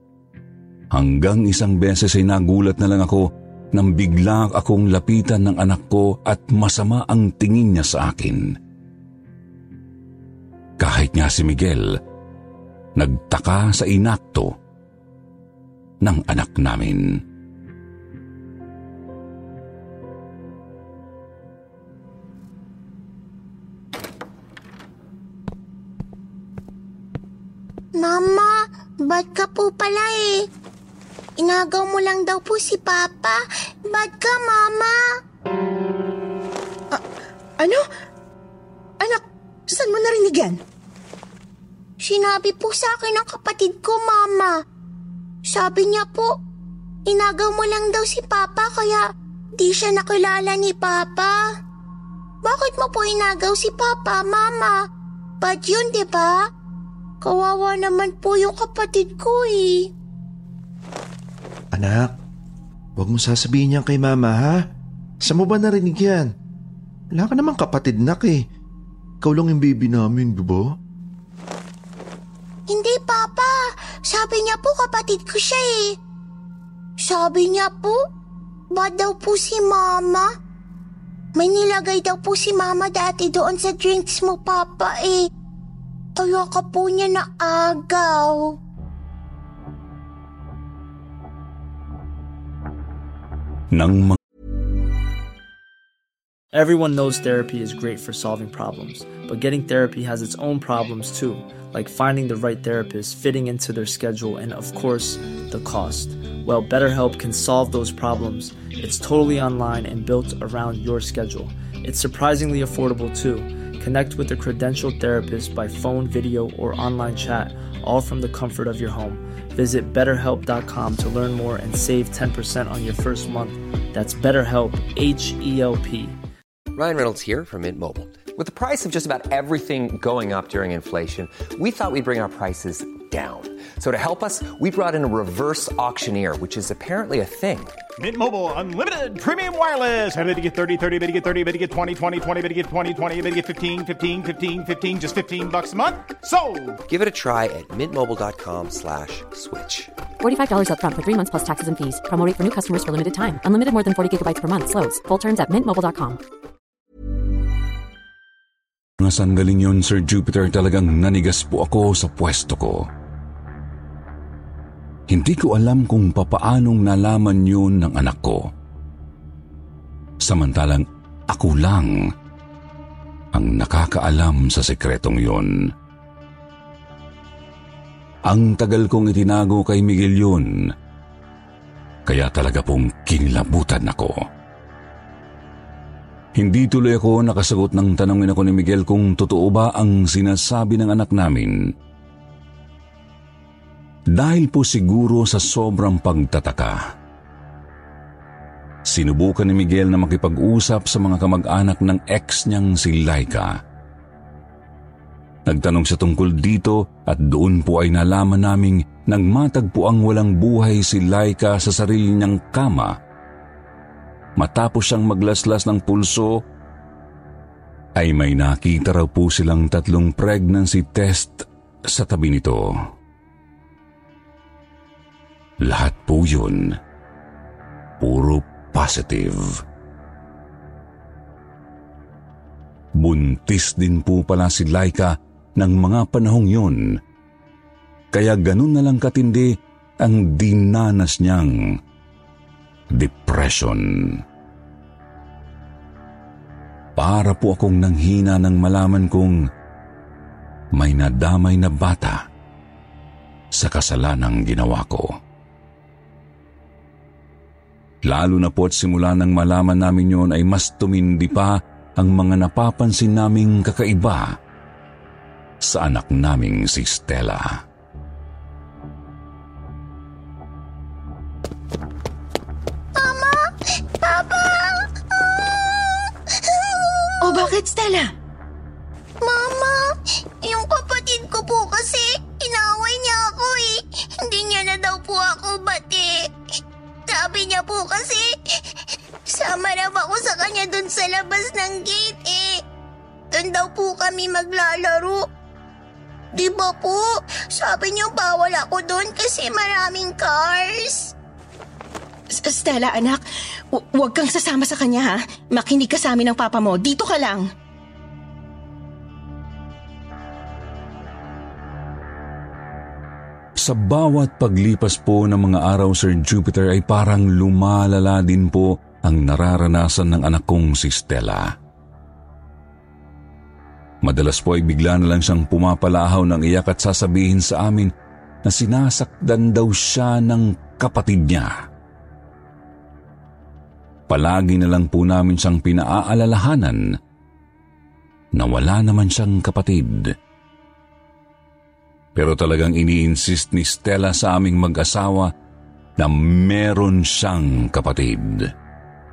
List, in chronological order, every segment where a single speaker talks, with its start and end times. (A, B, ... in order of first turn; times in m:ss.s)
0:00.9-0:08.5 A
0:10.8-0:12.0 A
0:13.0-0:14.5 A
0:16.0-0:17.2 A
0:28.0-0:30.5 B
0:31.4-0:35.0 B
0:39.0-0:40.6 C
0:42.0-0:44.5 B
0:45.5-0:46.3 B
0:47.1-0:49.0 B
0:49.6-0:51.4 B
0:52.4-0:54.8 B
0:55.4-0:56.4 B
0:57.2-0:59.9 B
1:01.7-1:02.1 D
1:03.0-1:04.6 D
1:05.2-1:06.3 D
1:07.2-1:08.4 D
1:09.2-1:10.7 D
1:12.7-1:13.5 B
1:14.1-1:16.0 B
1:17.0-1:18.0 B
1:18.7-1:20.3 B
1:21.4-1:25.3 B
1:26.2-1:28.6 B
1:33.7-1:34.2 A
1:36.5-2:06.2 E
2:06.7-2:17.7 F
2:18.0-2:26.8 G
2:26.9-2:29.9 F
2:30.2-2:36.2 H
2:39.0-2:42.9 A
2:45.1-2:48.4 A
2:50.2-2:51.9 A
2:53.3-2:55.5 A
2:58.3-3:00.5 A
3:02.1-3:04.2 A
3:06.4-3:11.5 A
3:14.1-3:16.8 A
3:18.9-3:23.6 A
3:25.5-3:32.9 A
3:34.4-3:36.4 A
3:38.0-3:42.8 A
3:45.6-3:46.8 A
3:48.0-3:49.4 A
3:53.0-3:56.8 A
3:58.1-3:59.5 A
4:00.0-4:01.5 A
4:02.9-4:04.2 A
4:07.0-4:09.4 A
4:10.7-4:12.2 A
4:13.5-4:15.1 A
4:18.0-4:24.4 A
4:25.6-4:27.6 A
4:33.0-4:33.4 B
4:34.0-4:37.5 B
4:37.2-4:38.1 C
4:39.2-4:39.8 B
4:40.4-4:46.3 B
4:47.1-4:48.6 B
4:49.3-4:52.6 B
4:53.3-4:55.2 B
4:56.3-5:01.1 B
5:02.3-5:03.2 C
5:03.7-5:07.4 C
5:13.6-5:21.5 A
5:24.0-5:27.9 A
5:28.4-5:31.5 A
5:34.1-5:36.8 A
5:38.4-5:40.1 A
5:42.1-5:45.3 A
5:46.0-5:48.5 A